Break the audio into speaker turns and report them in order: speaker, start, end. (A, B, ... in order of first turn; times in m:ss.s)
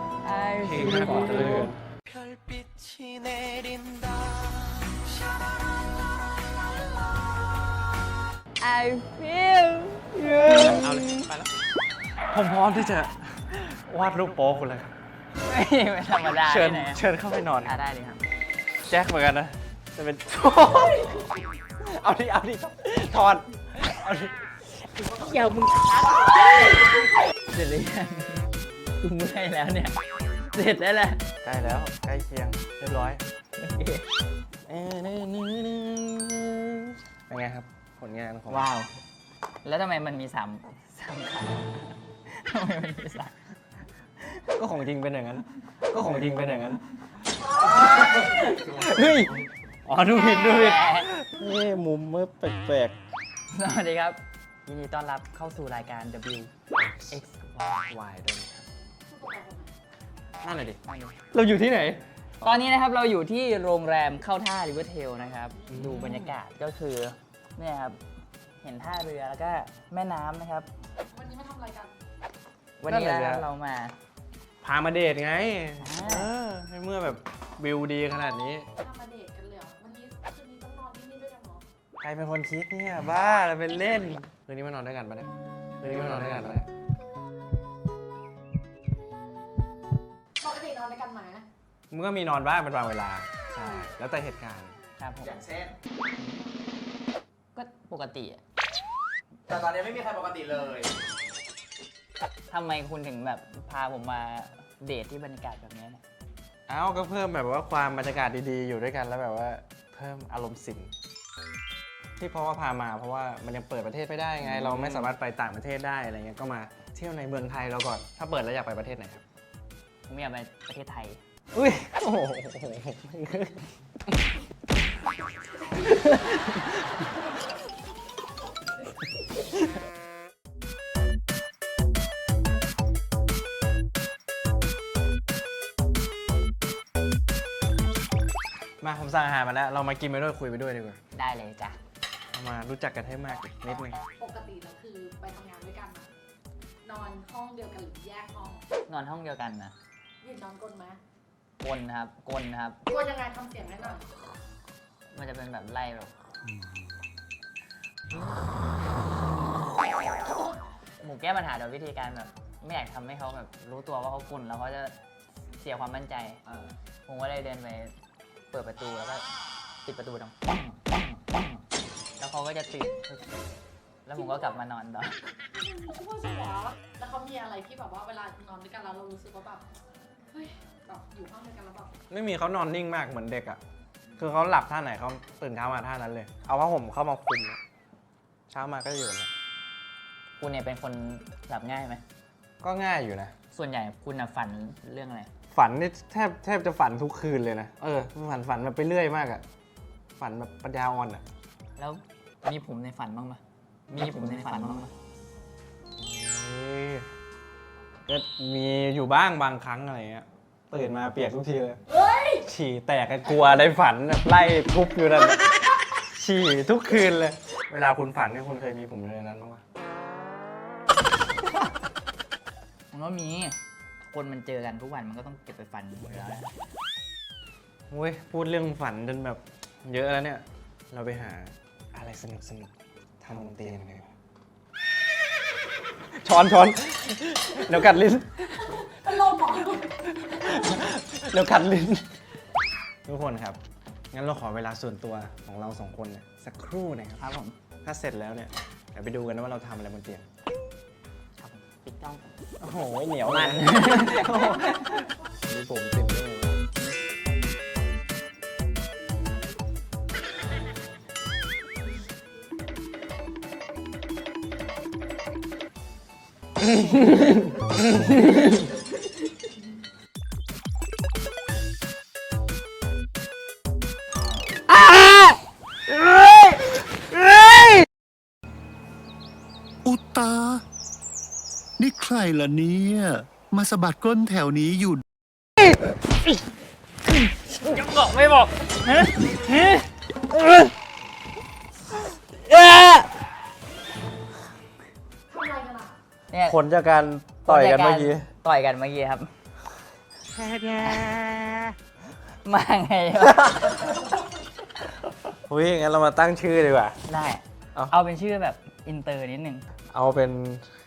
0:00.2-0:01.7 A
0:00.6-0:01.8 B
0:02.1-0:04.2 C
0:08.6-0:11.3 A
0:10.2-0:11.5 B
0:12.3-0:14.9 B
0:15.4-0:17.0 A
0:16.4-0:17.7 B
0:17.6-0:18.2 A
0:18.9-0:24.4 B
0:25.0-0:28.4 A
0:29.0-0:30.0 A
0:30.5-0:31.2 A
0:31.4-0:33.2 B
0:33.6-0:34.1 A
0:34.7-0:38.7 B
0:38.5-0:38.9 A
0:39.6-0:43.4 A
0:44.6-0:46.8 B
0:47.4-0:53.0 B
0:47.8-0:48.2 D
0:50.1-0:51.1 A
0:53.5-0:56.5 A
0:56.8-0:57.2 B
0:57.1-0:57.9 A
0:57.9-0:58.6 B
0:59.1-0:59.7 D
1:00.4-1:00.8 B
1:00.9-1:01.2 A
1:01.3-1:02.6 B
1:02.4-1:08.0 A
1:05.7-1:06.3 B
1:08.6-1:10.7 A
1:11.1-1:11.9 D
1:12.8-1:14.0 A
1:12.9-1:13.4 B
1:14.6-1:18.7 B
1:15.8-1:16.3 A
1:18.8-1:21.6 D
1:22.0-1:25.3 B
1:25.8-1:26.7 B
1:30.4-1:31.4 D
1:31.9-1:34.8 B
1:33.6-1:33.9 D
1:35.0-1:35.4 A
1:35.2-1:35.7 C
1:36.2-1:36.4 A
1:37.6-1:38.4 A
1:39.5-1:40.9 C
1:42.5-1:46.0 A
1:46.7-1:50.9 B
1:52.2-1:59.2 B
1:54.4-1:55.1 A
2:00.1-2:01.2 A
2:01.5-2:03.7 B
2:05.7-2:06.8 B
2:18.8-2:21.0 B
2:21.1-2:21.8 A
2:22.3-2:24.0 B
2:24.2-2:26.1 D
2:26.8-2:28.6 D
2:28.9-2:29.7 A
2:30.2-2:31.0 D
2:31.6-2:32.8 A
2:32.9-2:34.0 D
2:35.1-2:36.1 A
2:41.0-2:44.9 A
2:45.5-2:46.4 A
2:47.1-2:47.9 A
2:48.5-2:49.2 A
2:49.8-2:51.6 A
2:52.2-2:53.2 A
2:54.0-2:55.2 A
2:55.5-2:59.6 D
3:00.3-3:01.9 D
3:02.1-3:03.6 B
3:04.2-3:07.6 B
3:08.5-3:09.3 B
3:10.4-3:12.0 A
3:12.6-3:13.3 B
3:13.5-3:15.3 A
3:15.5-3:19.4 B
3:20.2-3:21.2 B
3:21.8-3:23.4 A
3:23.9-3:24.9 B
3:23.9-3:24.9 A
3:26.0-3:27.1 B
3:28.0-3:31.8 B
3:31.9-3:32.4 D
3:32.4-3:39.6 B
3:42.9-3:43.6 A
3:44.1-3:46.5 A
3:47.9-3:54.1 B
3:56.2-3:58.6 B
3:58.7-4:00.0 D
4:00.2-4:02.1 B
4:03.1-4:03.6 B
4:04.1-4:07.2 B
4:07.2-4:07.5 A
4:07.8-4:10.3 B
4:11.4-4:12.3 A
4:12.6-4:16.5 B
4:13.2-4:15.0 A
4:26.6-4:28.6 B
4:39.8-4:40.6 E
4:41.8-4:45.0 E
4:47.3-4:49.9 A
4:52.5-4:53.1 A
4:55.3-4:55.9 D
4:56.3-4:56.6 A
4:56.5-4:58.3 B
4:57.4-4:59.3 A
5:00.3-5:01.8 B
5:00.8-5:01.2 A
5:02.4-5:04.0 A
5:05.5-5:07.0 B
5:07.1-5:09.7 A
5:09.9-5:10.7 B